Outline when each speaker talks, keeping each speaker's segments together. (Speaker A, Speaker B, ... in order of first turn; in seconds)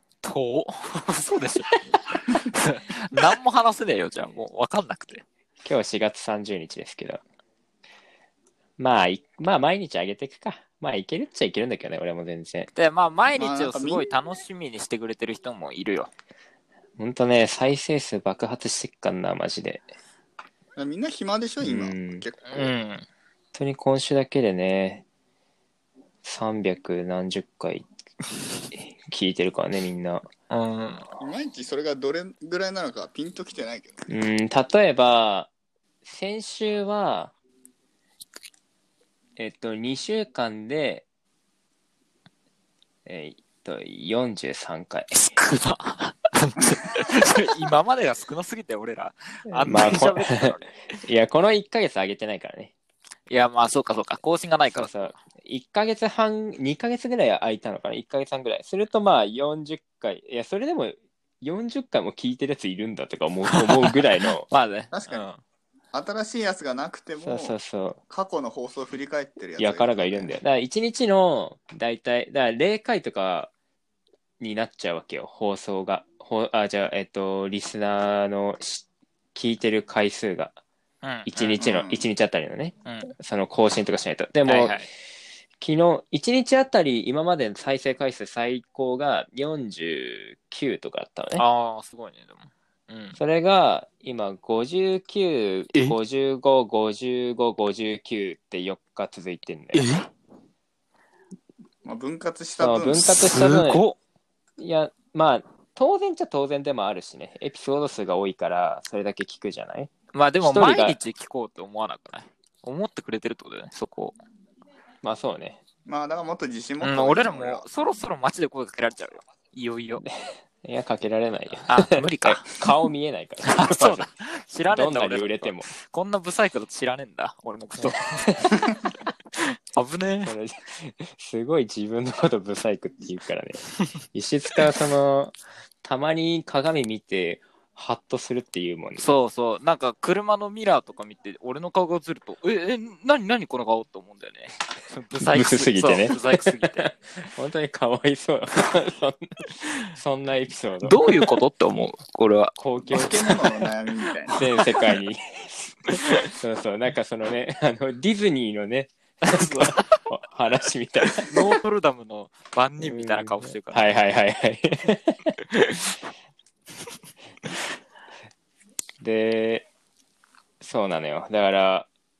Speaker A: 0.2-5.2, 12.7-16.1, 22.4-23.0, 30.5-31.1, 45.1-50.8, 53.3-55.1, 63.5-65.4, 81.0-81.6, 82.8-83.1, 84.4-84.9, 91.4-93.2, 99.8-100.0, 103.0-104.0, 110.1-114.2, 116.8-120.0, 121.6-122.9, 123.4-128.7, 129.3-130.3, 139.0-146.9, 150.8-152.6, 154.3-155.0, 159.2-160.0, 161.1-164.1
Speaker B: 5.6-7.2, 8.8-12.7, 17.0-19.8, 21.6-22.2, 23.5-25.0, 26.2-27.8, 28.7-30.2, 34.1-35.5, 36.0-37.3, 39.4-41.0, 43.0-45.2, 49.5-52.7, 54.7-64.5, 67.2-68.0, 69.6-73.5, 74.4-80.5, 81.3-84.8, 85.6-91.5, 93.2-99.9, 102.6-103.8, 104.6-111.0, 115.0-115.6, 120.0-124.1, 124.7-125.7, 127.8-128.5, 130.2-133.6, 134.1-139.1, 145.2-149.2, 149.9-151.3, 152.6-153.3, 154.3-161.6, 162.8-165.5, 169.0-169.7, 170.6-171.9
Speaker C: 13.3-14.1, 20.8-22.7, 31.2-34.0, 64.9-65.3, 65.9-67.6, 68.1-70.4, 81.6-82.1, 101.8-103.1, 115.8-117.7, 152.8-154.4